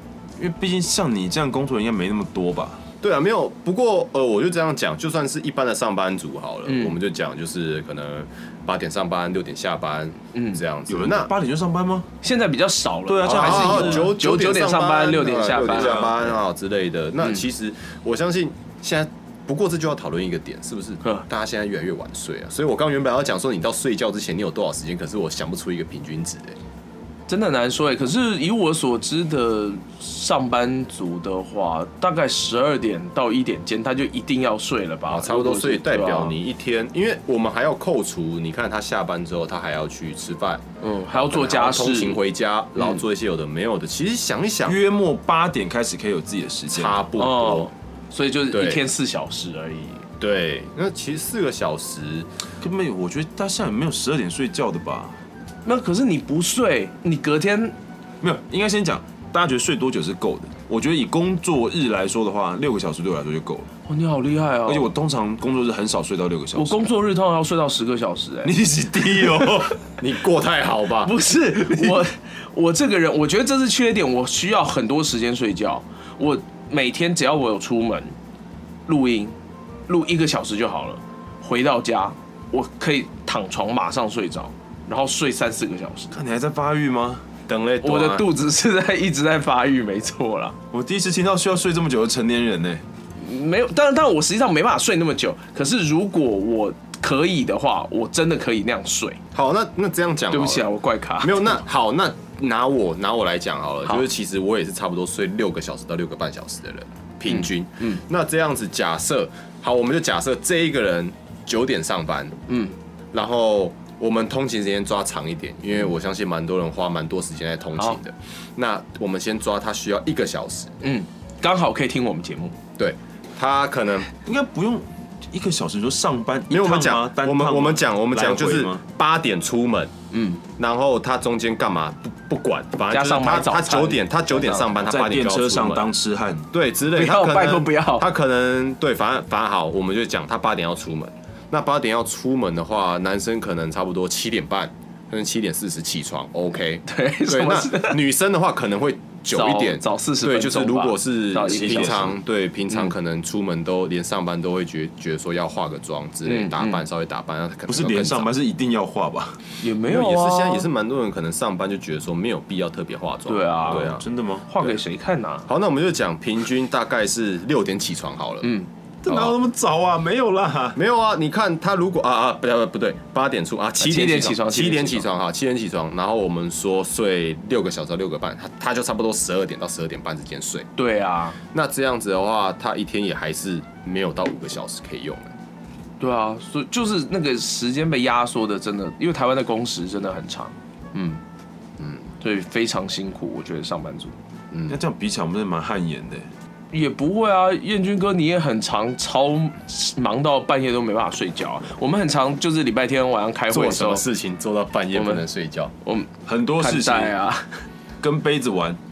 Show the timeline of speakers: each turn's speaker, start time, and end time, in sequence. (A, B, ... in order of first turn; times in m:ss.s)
0:00.4-0:02.8 A
0:03.0-0:11.3 B
0:06.7-0:07.0 C
0:10.3-0:10.6 C
0:10.9-0:12.1 A
0:12.2-0:16.0 C
0:13.1-0:14.2 A
0:13.2-0:26.6 B
0:15.6-0:16.2 A
0:27.3-0:36.4 C
0:35.1-0:44.8 B
0:40.8-0:42.2 C
0:44.7-0:47.0 A
0:46.7-0:47.7 B
0:47.2-0:50.0 C
0:48.5-0:48.8 B
0:50.2-0:52.3 B
0:52.6-0:55.2 A
0:55.6-0:57.8 C
0:58.2-1:03.7 A
1:03.9-1:04.9 C
1:04.7-1:06.8 A
1:06.5-1:08.6 C
1:08.4-1:09.8 A
1:09.1-1:09.4 C
1:10.0-1:12.0 B
1:11.0-1:18.2 C
1:18.9-1:19.4 C
1:19.9-1:26.2 C
1:26.1-1:27.2 A
1:27.5-1:28.3 B
1:27.8-1:30.6 C
1:30.7-1:32.8 A
1:33.2-1:39.2 C
1:39.3-1:52.4 B
1:40.3-1:41.6 C
1:47.3-1:48.0 C
1:52.5-1:52.8 C
1:53.1-2:00.7 B
2:00.8-2:02.6 C
2:02.8-2:04.1 B
2:04.2-2:08.8 A
2:06.5-2:09.9 B
2:10.1-2:10.4 C
2:10.6-2:15.9 B
2:12.9-2:14.7 C
2:14.8-2:16.5 A
2:16.5-2:38.3 B
2:17.0-2:18.1 C
2:26.9-2:28.0 C
2:29.3-2:32.1 C
2:31.5-2:32.1 A
2:36.2-2:36.8 C
2:37.7-2:39.4 A
2:39.6-2:40.7 C
2:39.9-2:44.1 B
2:43.3-2:45.5 C
2:43.7-2:44.5 A
2:45.5-2:48.5 B
2:48.4-2:48.7 C
2:49.0-2:50.8 A
2:49.1-2:49.4 B
2:50.8-3:00.7 B
2:53.8-2:55.1 C
3:00.8-3:01.4 C
3:01.5-3:05.3 B
3:06.0-3:11.2 C
3:11.8-3:12.0 B
3:12.2-3:14.1 C
3:14.5-3:14.8 B
3:14.7-3:16.3 A
3:16.7-3:24.0 C
3:23.5-3:25.7 B
3:24.9-3:25.2 C
3:25.8-3:27.5 C
3:26.3-3:27.2 A
3:28.0-3:28.8 A